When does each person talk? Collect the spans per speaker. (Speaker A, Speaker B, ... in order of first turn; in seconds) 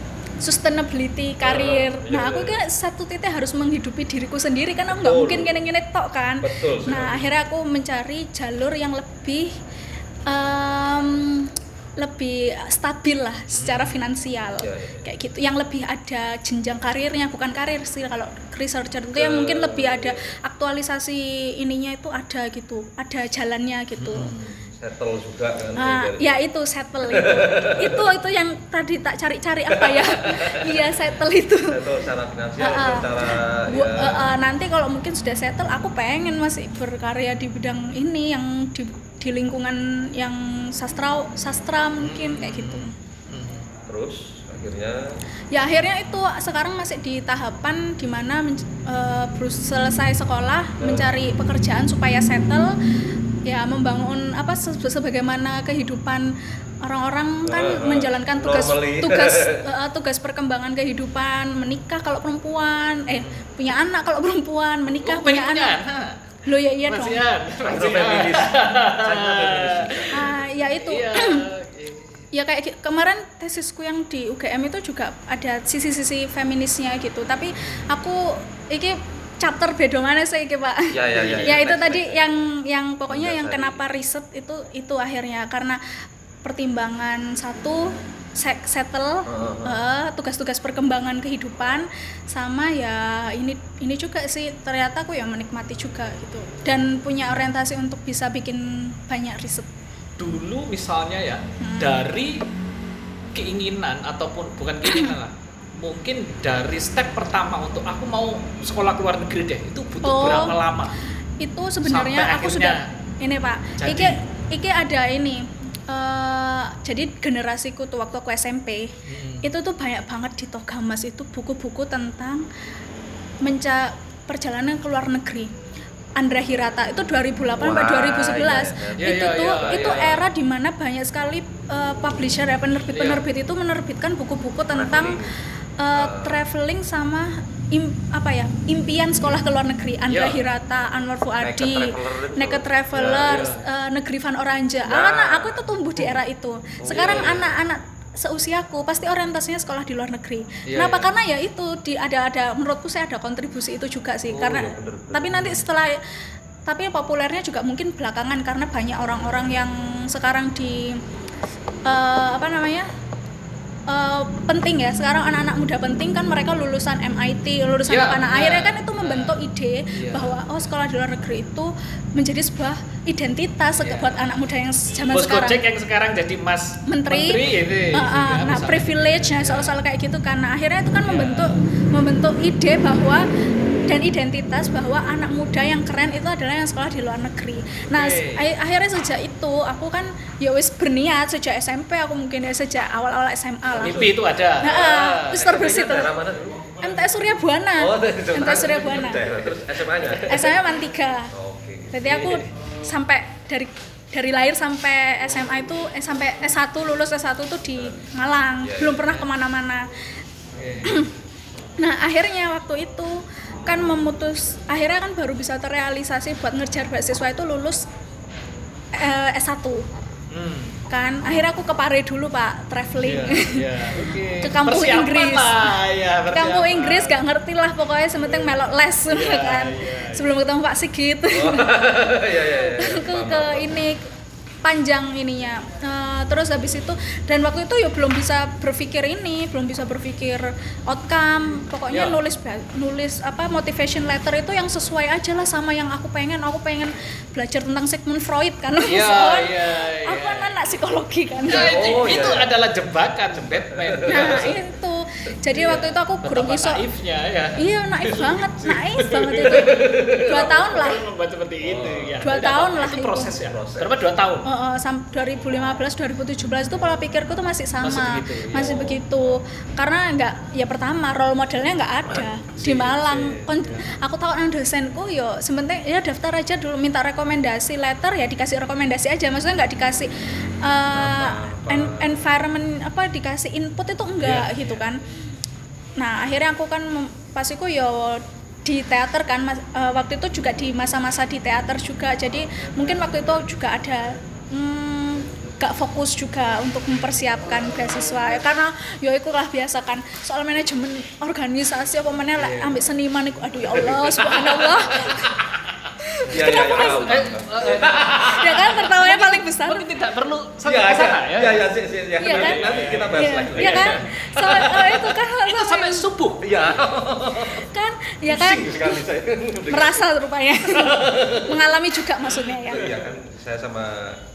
Speaker A: 0.4-9.5, 10.2-24.3, 25.8-31.9, 32.6-42.9, 45.5-52.8, 53.4-65.8, 66.5-67.2, 70.1-71.4, 72.3-99.7, 101.6-102.0, 110.0-110.6, 111.4-118.9, 119.4-122.5, 123.4-125.5, 126.2-135.2, 135.8-156.0, 156.7-161.0, 161.8-162.9, 163.9-175.6, 176.9-183.2, 183.9-194.1, 194.6-196.1, 196.8-199.2, 200.3-201.3, 201.9-209.9, 211.8-217.8, 218.9-219.9, 220.9-225.7, 226.3-234.0, 234.6-251.8, 254.1-256.8, 257.6-261.0, 262.2-263.3, 264.4-285.0, 286.0-305.4, 306.0-309.9, 312.2-316.1, 317.4-319.0, 319.7-322.9
Speaker B: 1.4-2.6, 4.9-5.6, 6.4-7.3, 14.6-15.0, 19.1-20.3, 24.7-26.4, 27.0-28.1, 29.7-30.8, 31.7-34.3, 43.9-45.2, 50.8-51.1, 57.5-59.6, 67.7-70.6, 80.9-82.2, 83.1-83.8, 89.2-89.8, 127.6-130.2, 134.7-135.3, 135.9-136.4, 141.4-143.5, 144.8-145.6, 146.8-147.6, 154.3-155.5, 169.9-170.3, 173.8-174.2, 187.9-188.4, 193.7-196.9, 197.8-200.7, 201.3-202.0, 208.6-209.2, 231.3-233.9, 251.5-252.5, 253.5-254.5, 255.5-255.8, 259.5-260.6, 261.6-262.3, 263.4-264.0, 272.7-273.2, 280.9-282.2, 306.3-308.7, 310.6-314.7, 316.4-317.6, 318.3-320.1, 320.6-321.7, 322.7-324.2
Speaker C: 13.5-14.0, 23.9-24.6, 42.0-43.7, 63.1-63.4, 64.9-66.2, 66.9-72.2, 77.6-77.9, 81.1-81.5, 100.2-102.4, 103.3-111.0, 111.8-112.8, 113.8-114.2, 119.1-119.5, 129.0-130.2, 132.9-133.2, 140.1-140.4, 143.2-143.6, 146.9-147.2, 150.7-151.1, 167.9-169.4, 175.1-179.8, 181.0-181.6, 193.8-195.3, 198.6-200.5, 202.0-202.5, 210.6-211.1, 220.3-220.8, 223.0-227.2, 229.1-230.3, 241.9-242.2, 248.8-250.6, 251.5-254.6, 255.6-264.5, 267.8-269.0, 272.6-273.8, 284.2-284.8, 302.4-302.8, 304.0-304.4, 306.3-311.6, 312.2-316.5, 322.3-323.0